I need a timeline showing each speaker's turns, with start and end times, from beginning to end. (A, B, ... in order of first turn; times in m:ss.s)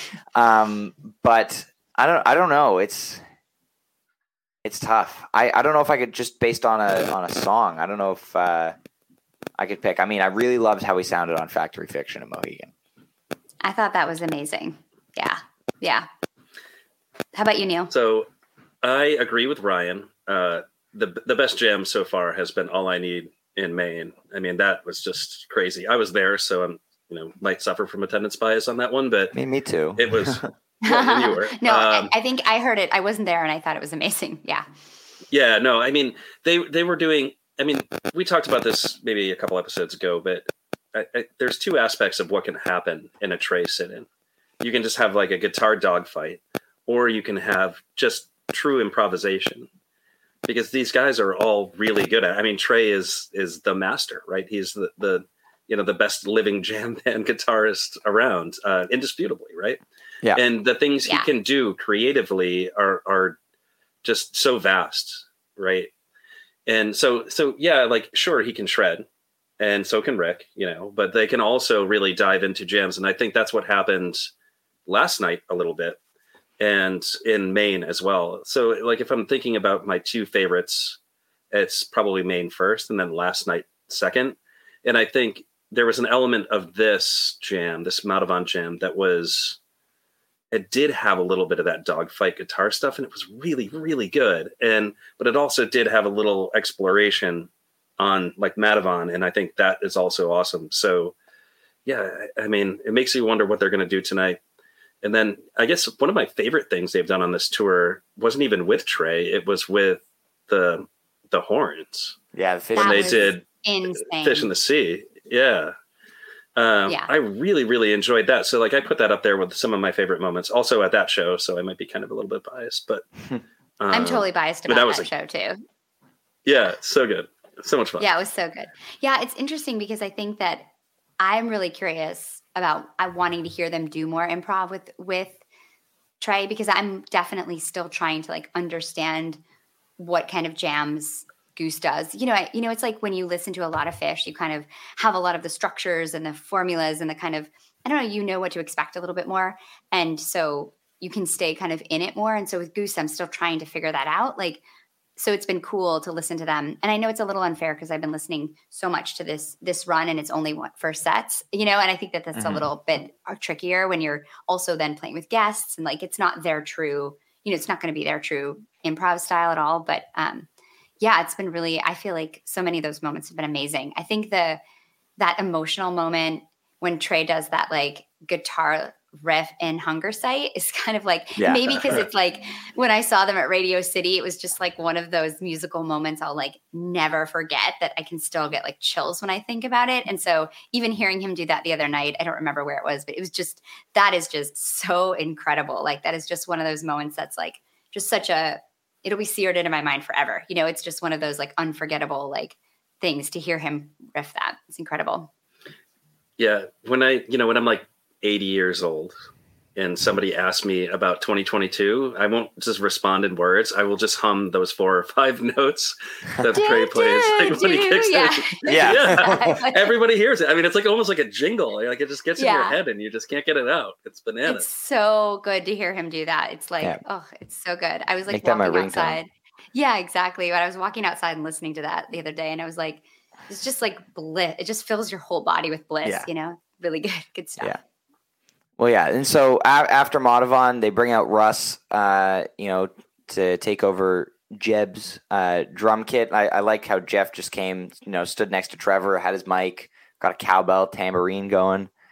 0:00.3-0:03.2 A
0:04.6-0:08.8 A
0:09.6-0:12.7 A
0:13.6-0:16.1 B
0:17.3-0:17.9 B
0:17.9-0:18.3 C
0:18.8-0:29.4 C
0:29.3-0:30.4 A
0:30.0-0:32.1 C
0:30.8-0:34.6 B
0:35.3-0:44.1 C
0:44.6-0:49.7 C
0:50.5-0:59.8 C
1:00.3-1:03.4 C
1:04.0-1:05.9 C
1:06.7-1:09.1 C
1:09.6-1:14.3 C
1:14.9-1:16.0 C
1:16.6-1:21.0 C
1:21.5-1:29.6 C
1:30.5-1:41.1 C
1:41.9-1:44.4 C
1:45.0-1:52.2 C
1:52.3-1:53.3 A
1:52.8-1:53.4 C
1:52.8-1:54.5 B
1:54.0-1:55.7 C
1:56.6-2:03.0 C
2:03.8-2:05.1 C
2:03.9-2:05.6 B
2:06.5-2:08.1 C
2:08.0-2:10.7 B
2:11.2-2:15.4 B
2:16.2-2:19.4 B
2:20.0-2:34.6 B
2:35.2-2:50.5 B
2:42.4-2:42.6 A
2:51.0-2:54.6 B
2:55.2-3:25.3 B
3:01.4-3:01.6 A
3:26.4-3:29.1 C
3:29.8-3:44.7 C
3:36.5-3:39.9 B
3:38.7-3:39.6 A
3:42.4-3:42.8 B
3:44.5-3:57.8 B
3:48.3-3:49.2 A
3:58.8-4:11.9 A